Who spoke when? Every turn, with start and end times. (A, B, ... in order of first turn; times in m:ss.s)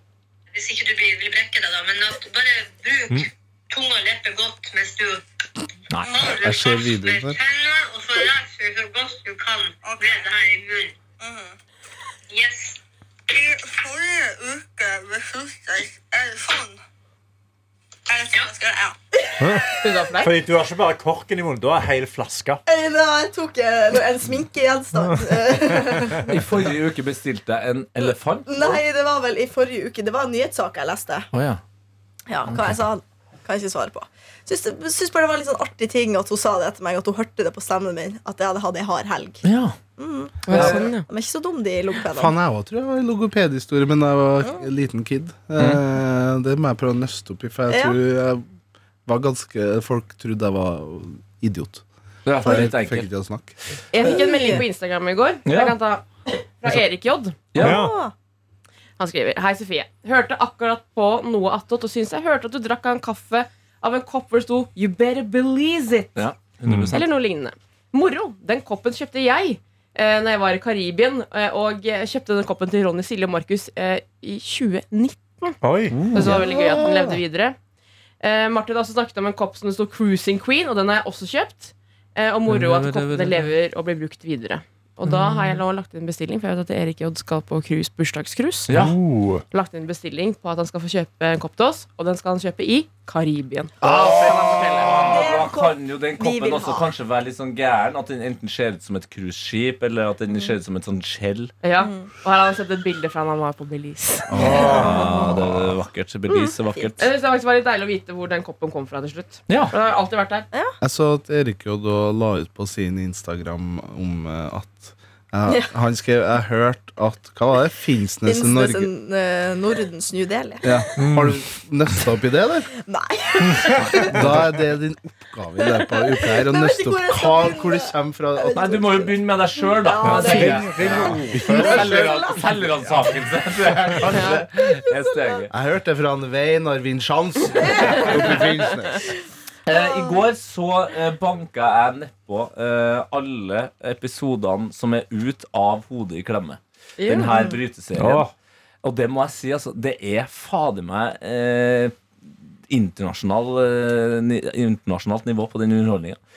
0:00.5-0:05.2 A
0:05.9-0:06.2 B
0:06.0-0:10.9 A
0:06.2-0:07.4 C
0:11.2-0:11.5 D
0:12.3-0:12.8 A
0:13.3-0:14.0 A
0:18.2-0:19.7 D
0:18.3-0:18.6 A
0:19.4-0:22.6 E
0:19.8-0:20.3 F
0:22.7-0:26.3 D
0:25.0-0:26.2 E
0:26.3-0:28.8 B
0:28.4-0:31.3 D
0:31.3-0:31.6 B
0:32.3-0:39.4 D
0:32.5-0:32.8 B
0:39.4-0:39.8 B
0:40.0-0:42.3 D
0:40.4-0:41.0 F
0:42.1-0:48.4 C
0:47.7-0:48.0 D
0:49.0-0:51.8 C
0:52.2-0:53.1 B
0:52.4-0:53.5 C
0:53.9-0:57.4 F
0:54.0-0:54.6 D
0:55.4-0:55.8 B
0:57.5-0:57.8 B
0:57.6-0:58.0 E
0:57.6-0:58.1 D
0:59.0-1:06.2 F
1:06.2-1:07.1 B
1:06.7-1:06.9 E
1:06.9-1:15.6 F
1:15.6-1:16.0 E
1:15.9-1:16.4 B
1:16.1-1:17.6 F
1:16.2-1:17.2 C
1:18.2-1:28.7 F
1:22.5-1:23.5 B
1:25.0-1:25.6 B
1:28.7-1:29.0 B
1:28.7-1:29.4 E
1:29.5-1:35.0 F
1:33.8-1:41.5 B
1:34.9-1:36.9 D
1:41.6-1:44.6 F
1:41.8-1:42.1 D
1:44.3-1:45.4 C
1:44.4-1:45.3 D
1:44.4-1:47.1 B
1:47.0-1:50.5 F
1:49.5-1:49.7 B
1:50.8-1:58.9 C
1:58.2-2:01.0 D
2:00.6-2:02.7 C
2:01.0-2:01.4 E
2:02.7-2:04.2 D
2:03.4-2:03.9 E
2:03.9-2:09.0 C
2:05.8-2:12.7 D
2:08.5-2:15.5 B
2:10.0-2:11.7 C
2:10.0-2:12.0 E
2:14.0-2:14.4 F
2:15.5-2:19.1 C
2:17.6-2:18.3 D
2:19.6-2:28.3 B
2:19.7-2:20.0 D
2:27.0-2:27.5 F
2:27.9-2:28.3 E
2:28.8-2:32.0 B
2:32.7-2:36.2 B